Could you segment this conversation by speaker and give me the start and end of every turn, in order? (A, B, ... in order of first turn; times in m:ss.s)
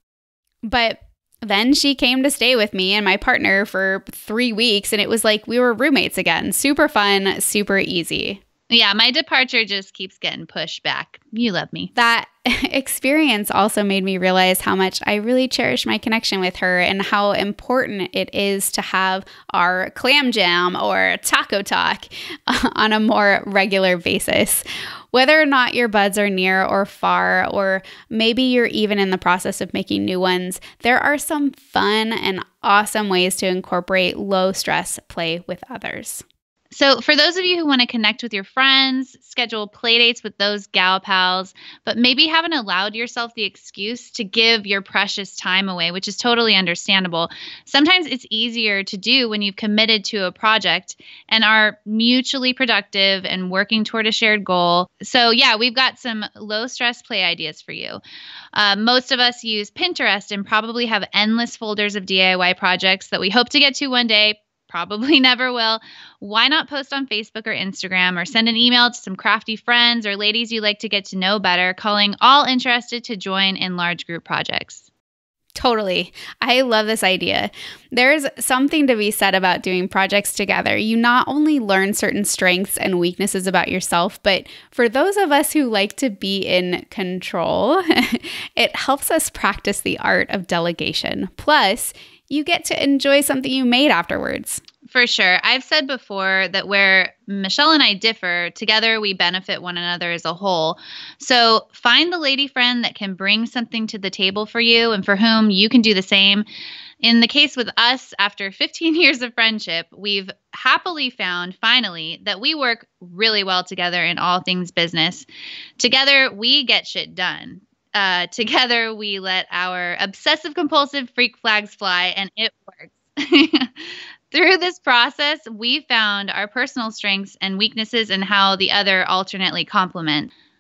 0:00.6-0:08.4 A
0:08.7-0:11.9 B
0:11.9-0:36.2 A
0:36.7-0:58.0 B
0:58.5-1:14.8 B
1:15.5-1:34.6 A
1:34.9-1:46.4 B
1:47.0-1:55.2 B
1:55.8-2:10.3 B